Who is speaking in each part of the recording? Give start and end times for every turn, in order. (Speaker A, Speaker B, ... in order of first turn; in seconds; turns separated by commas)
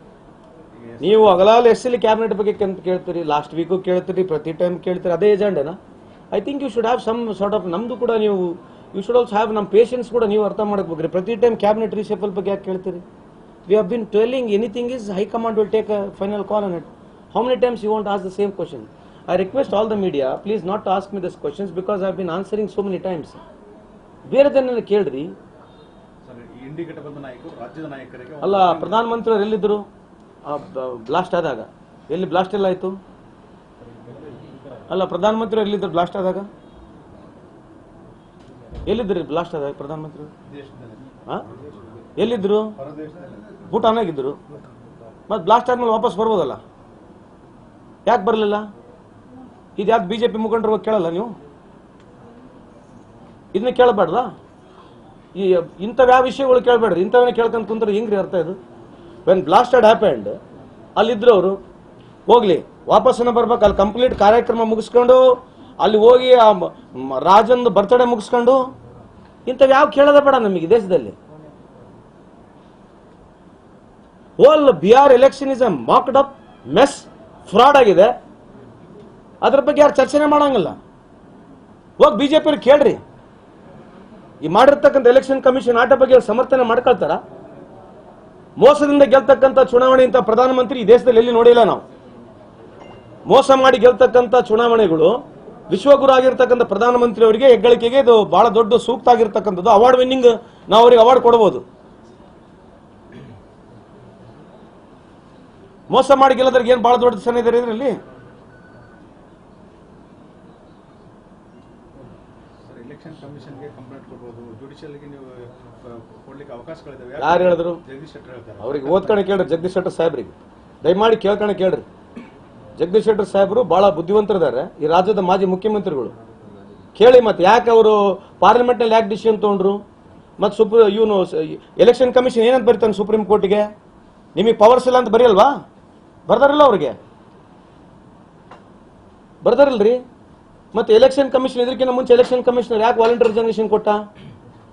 Speaker A: 0.8-1.5, Speaker B: 1.0-5.8, Speaker B: 6.3-13.0, Speaker B: 13.7-23.4, Speaker B: 24.3-25.3, Speaker A: 26.2-29.0, Speaker B: 28.4-29.8, Speaker B: 30.4-33.0, Speaker A: 34.0-34.5, Speaker B: 34.9-36.5, Speaker B: 38.9-40.3, Speaker A: 40.4-41.6, Speaker B: 42.2-42.7, Speaker A: 42.8-43.6, Speaker B: 43.7-44.4, Speaker B: 45.3-46.6, Speaker B: 48.1-48.6, Speaker B: 49.8-51.3, Speaker B: 53.5-54.3, Speaker B: 55.3-58.6, Speaker B: 59.2-60.4, Speaker B: 61.0-61.6, Speaker B: 62.3-65.3, Speaker B: 65.8-68.6, Speaker B: 69.5-71.2, Speaker B: 74.4-78.1, Speaker B: 79.4-80.8, Speaker B: 82.0-83.0, Speaker B: 84.4-87.2, Speaker B: 88.6-91.8, Speaker B: 93.3-95.1, Speaker B: 95.7-101.6, Speaker B: 105.9-108.0, Speaker A: 112.6-119.3, Speaker B: 117.2-117.8, Speaker B: 118.6-121.8, Speaker B: 122.8-126.1, Speaker B: 127.0-129.8, Speaker B: 130.4-133.7, Speaker B: 134.3-135.6, Speaker B: 136.3-137.0, Speaker B: 139.4-140.0, Speaker B: 140.7-144.0